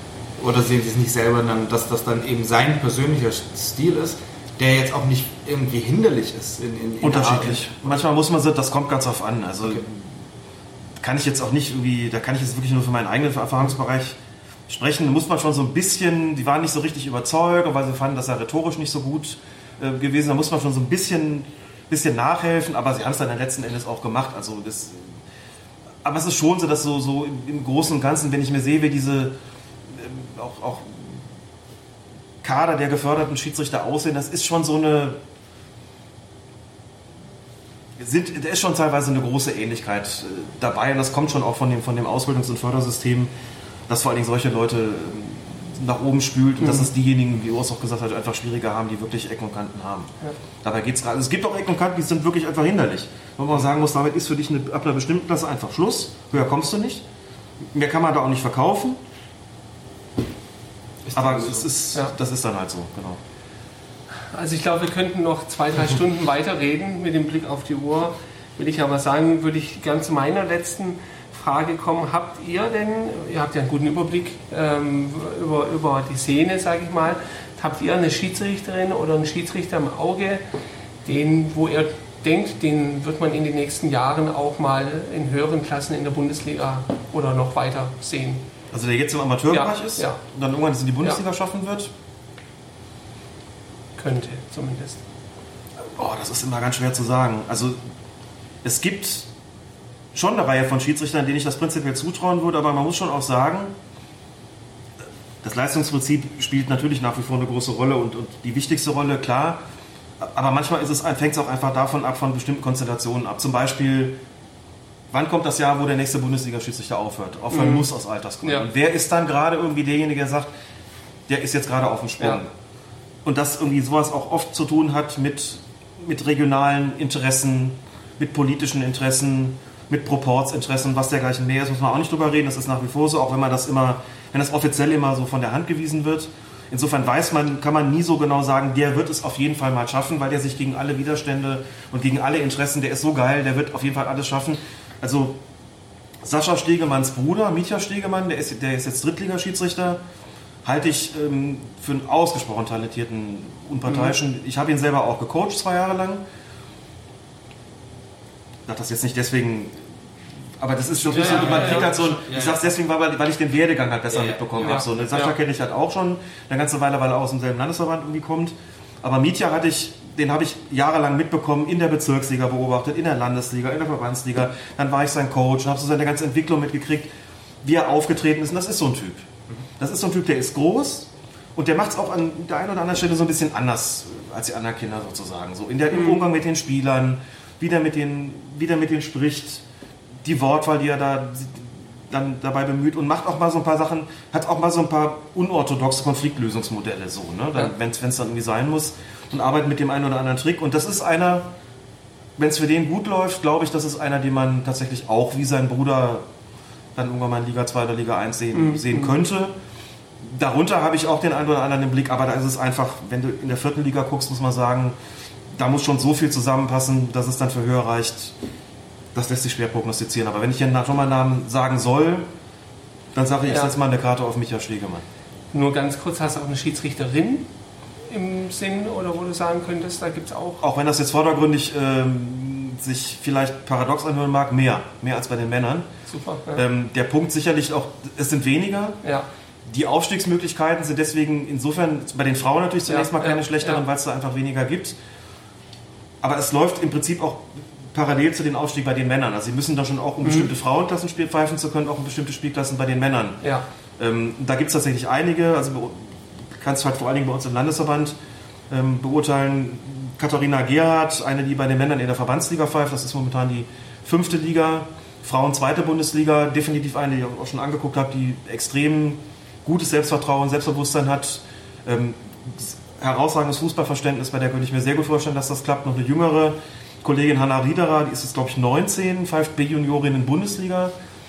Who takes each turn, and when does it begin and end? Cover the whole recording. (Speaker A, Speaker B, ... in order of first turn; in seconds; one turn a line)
Speaker A: 0.4-7.9
Speaker B: 7.0-10.0
Speaker B: 11.0-14.2
Speaker B: 14.7-25.1
Speaker B: 26.0-29.4
Speaker B: 29.9-31.1
Speaker B: 32.4-35.2
Speaker B: 38.0-43.3
Speaker B: 43.9-50.1
Speaker C: 46.6-46.9
Speaker B: 50.6-57.0
Speaker B: 57.7-59.0
Speaker A: 61.1-61.7
Speaker B: 61.1-63.2
Speaker C: 64.3-80.4
Speaker C: 81.0-88.4
Speaker B: 88.7-91.9
Speaker C: 89.5-90.2
Speaker C: 94.0-95.0
Speaker B: 96.0-97.8
Speaker B: 98.6-99.3
Speaker B: 100.1-103.7
Speaker B: 105.4-109.6
Speaker B: 110.2-114.2
Speaker B: 115.1-120.5
Speaker C: 117.5-117.9
Speaker C: 118.4-118.7
Speaker B: 121.3-122.5
Speaker B: 123.2-145.4
Speaker B: 146.2-150.0
Speaker B: 150.6-156.2
Speaker C: 153.9-154.1
Speaker B: 158.7-159.8
Speaker B: 160.6-177.1
Speaker C: 161.1-161.9
Speaker A: 161.2-162.7
Speaker A: 164.1-164.6
Speaker C: 164.6-165.3
Speaker B: 177.6-189.6
Speaker C: 185.9-186.3
Speaker B: 190.2-201.5
Speaker B: 202.4-206.2
Speaker B: 206.9-209.5
Speaker C: 208.5-209.1
Speaker B: 210.2-214.9
Speaker B: 215.5-218.3
Speaker B: 219.1-222.2
Speaker B: 223.1-225.0
Speaker C: 223.5-223.7
Speaker C: 225.5-227.5
Speaker C: 228.1-230.6
Speaker B: 230.6-235.9
Speaker C: 236.1-236.6
Speaker B: 236.5-239.0
Speaker B: 239.7-244.9
Speaker C: 242.9-243.8
Speaker B: 246.2-253.4
Speaker C: 250.2-250.5
Speaker B: 254.0-256.0
Speaker B: 256.6-258.1
Speaker B: 258.7-280.9